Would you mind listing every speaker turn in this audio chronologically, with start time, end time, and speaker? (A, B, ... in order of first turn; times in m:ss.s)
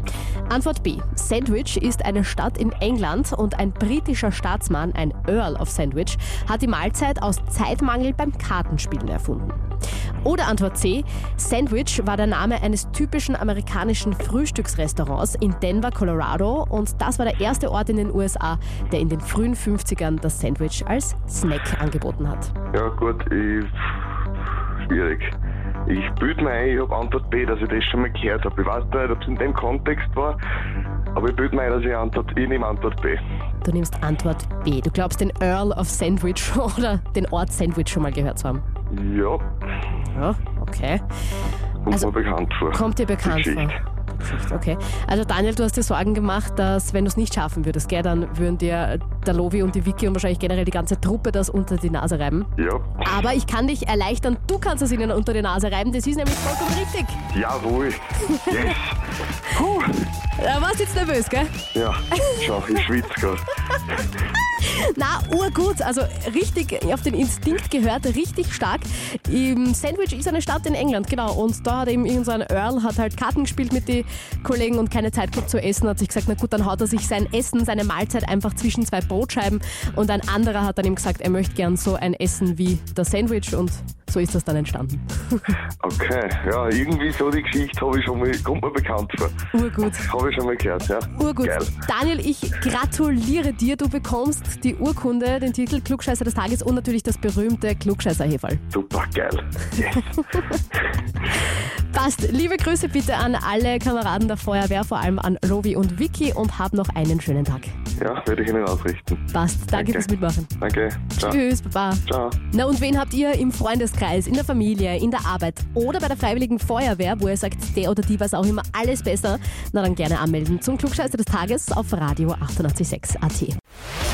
0:00.5-0:09.6 A
0:10.2-0:22.5 A
0:22.7-0:23.7 B
0:24.8-0:25.3 B
0:25.8-0:30.4 B
0:31.1-0:33.2 B
0:33.6-0:38.6 A
0:38.9-0:39.5 B
0:40.1-0:41.0 A
0:41.8-0:43.7 B
0:42.7-0:57.2 A
0:52.6-0:53.2 B
0:57.3-1:00.0 B
0:58.2-0:58.6 A
1:00.4-1:01.5 A
1:01.7-1:03.5 B
1:04.6-1:25.6 A
1:25.8-1:29.4 B
1:29.5-1:30.1 A
1:29.9-1:31.7 B
1:31.1-1:38.6 A
1:38.7-1:40.1 B
1:41.9-1:47.8 A
1:48.0-1:50.1 B
1:49.3-1:50.5 A
1:50.6-1:51.4 B
1:51.2-2:03.6 A
1:52.1-1:52.4 B